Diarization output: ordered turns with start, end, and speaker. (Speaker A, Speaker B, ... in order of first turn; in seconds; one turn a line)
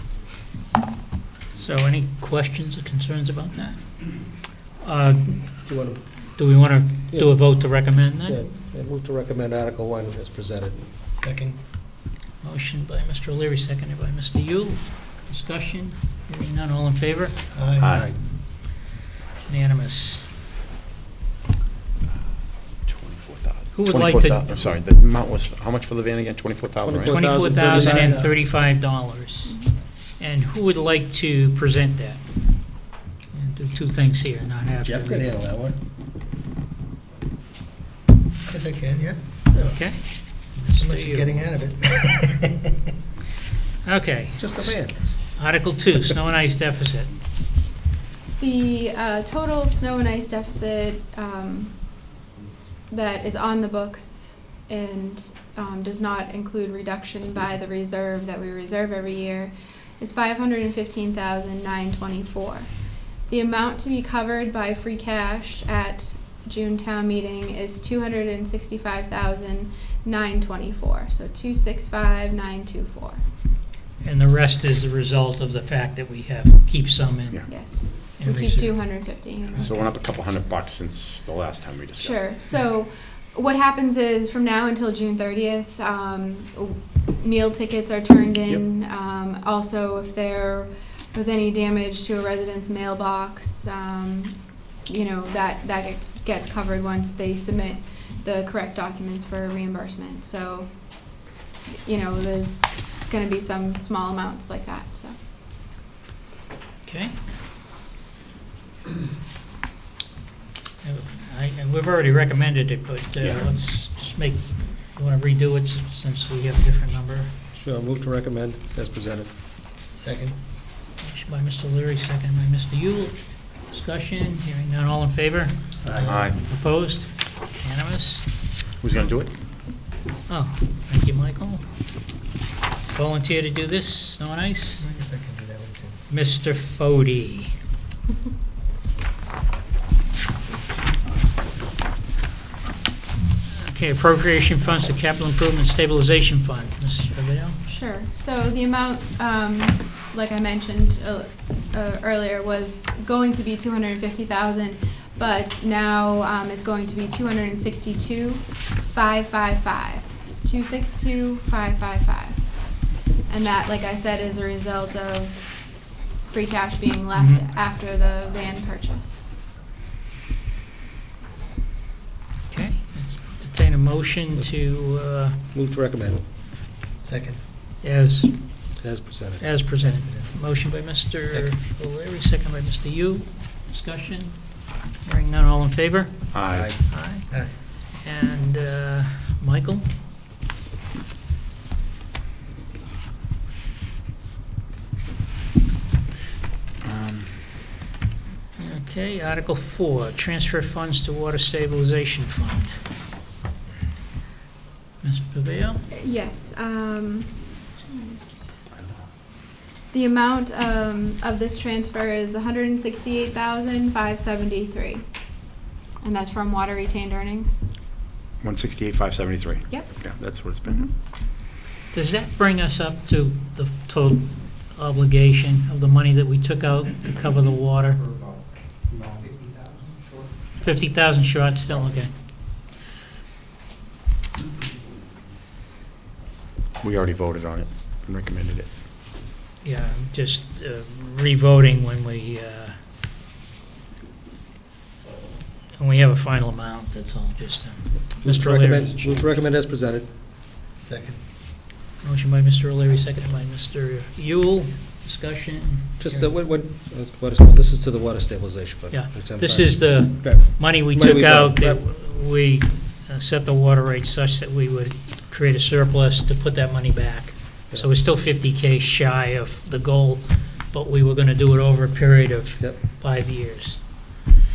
Speaker A: 1.6-5.7
Speaker B: 5.6-6.0
Speaker A: 6.3-8.4
Speaker B: 7.1-10.9
Speaker C: 11.1-11.6
Speaker A: 12.4-17.4
Speaker C: 17.5-18.1
Speaker D: 17.8-18.1
Speaker B: 17.9-18.2
Speaker A: 19.4-20.3
Speaker D: 22.9-27.2
Speaker A: 23.7-24.7
Speaker B: 26.8-28.4
Speaker A: 27.1-29.6
Speaker E: 29.4-29.7
Speaker A: 30.2-32.2
Speaker A: 33.3-35.3
Speaker B: 34.8-35.8
Speaker C: 38.5-39.5
Speaker A: 39.5-41.3
Speaker C: 40.7-42.6
Speaker A: 43.8-47.1
Speaker B: 44.4-45.4
Speaker E: 48.4-51.9
Speaker E: 52.9-62.7
Speaker E: 63.3-73.2
Speaker A: 74.0-79.8
Speaker E: 77.5-79.8
Speaker D: 79.5-82.3
Speaker E: 82.0-101.2
Speaker E: 101.8-105.2
Speaker A: 106.8-107.1
Speaker A: 110.8-117.3
Speaker D: 113.2-113.5
Speaker B: 117.5-119.3
Speaker C: 119.9-120.3
Speaker A: 121.0-128.5
Speaker B: 125.8-126.1
Speaker C: 125.9-126.3
Speaker D: 126.0-126.4
Speaker D: 128.8-129.3
Speaker A: 130.3-131.6
Speaker A: 132.9-134.8
Speaker C: 134.8-136.0
Speaker A: 136.1-137.5
Speaker A: 143.5-147.6
Speaker E: 147.7-162.5
Speaker E: 163.3-165.5
Speaker E: 166.2-169.3
Speaker A: 167.1-167.4
Speaker A: 172.5-175.4
Speaker B: 174.3-176.2
Speaker C: 177.0-177.4
Speaker A: 177.8-178.7
Speaker B: 178.8-179.6
Speaker A: 179.4-189.9
Speaker C: 179.8-180.3
Speaker C: 181.2-181.5
Speaker D: 186.3-186.7
Speaker B: 186.5-186.9
Speaker D: 196.8-197.4
Speaker A: 198.6-202.8
Speaker A: 205.0-205.8
Speaker E: 205.9-208.5
Speaker E: 209.9-215.1
Speaker E: 216.0-217.6
Speaker D: 218.4-220.9
Speaker E: 219.7-220.9
Speaker A: 221.9-228.0
Speaker A: 230.6-232.1
Speaker D: 236.8-238.8
Speaker A: 239.6-242.8
Speaker A: 245.7-249.1
Speaker B: 248.1-250.1
Speaker C: 250.8-251.2
Speaker A: 252.0-256.3
Speaker B: 256.0-261.8
Speaker A: 258.9-273.8